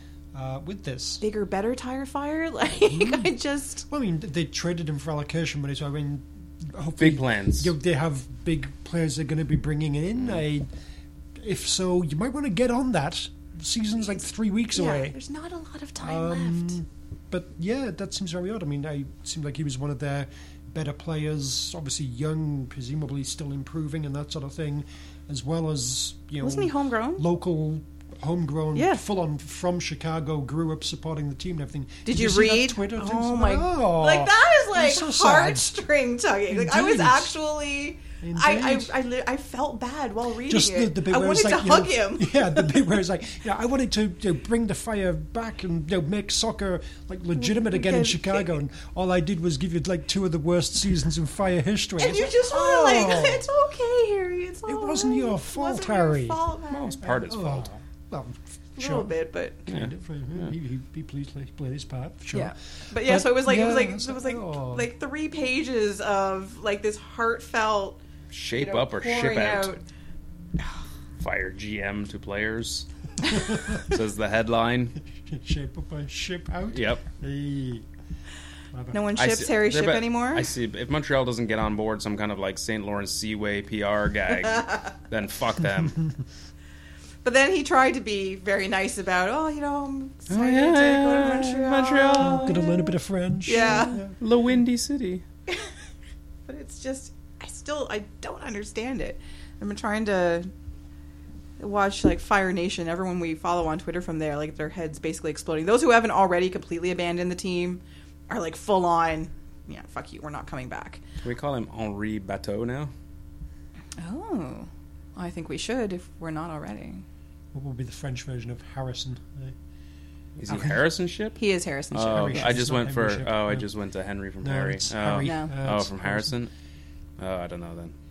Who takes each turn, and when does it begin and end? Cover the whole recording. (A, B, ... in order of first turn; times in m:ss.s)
0:00.3-0:01.2 A
0:01.2-0:03.8 B
0:02.8-0:03.3 A
0:03.9-0:10.7 A
0:07.0-0:07.7 C
0:11.4-0:15.2 A
0:14.7-0:16.8 B
0:16.0-0:35.7 A
0:26.4-0:27.2 B
0:28.7-0:29.0 B
0:32.0-0:42.9 B
0:36.5-0:37.3 A
0:38.2-0:38.9 A
0:40.4-0:53.5 A
0:47.4-0:48.5 B
0:52.0-0:57.2 B
0:54.6-0:56.4 A
0:56.7-0:57.7 C
0:57.2-0:59.1 A
0:58.8-0:59.6 B
0:59.6-1:04.9 A
0:59.7-1:00.5 C
1:02.3-1:08.0 B
1:08.3-1:09.7 C
1:08.6-1:09.8 B
1:11.2-1:12.8 C
1:13.4-1:13.8 A
1:13.7-1:15.0 C
1:15.1-1:17.8 A
1:16.7-1:17.0 C
1:18.7-1:19.0 A
1:18.9-1:20.5 B
1:19.2-1:26.0 C
1:24.5-1:24.9 B
1:27.2-1:32.9 B
1:30.3-1:32.5 C
1:32.2-1:34.1 A
1:33.4-1:34.0 B
1:33.5-1:35.2 C
1:36.5-1:40.5 B
1:41.6-1:51.0 B
1:51.2-1:52.9 C
1:54.0-1:57.0 B
1:57.5-1:59.5 A
2:00.4-2:01.4 C
2:00.5-2:00.8 A
2:01.4-2:02.6 B
2:01.9-2:06.5 C
2:02.0-2:03.6 A
2:04.4-2:06.3 A
2:05.2-2:05.5 B
2:07.2-2:07.9 C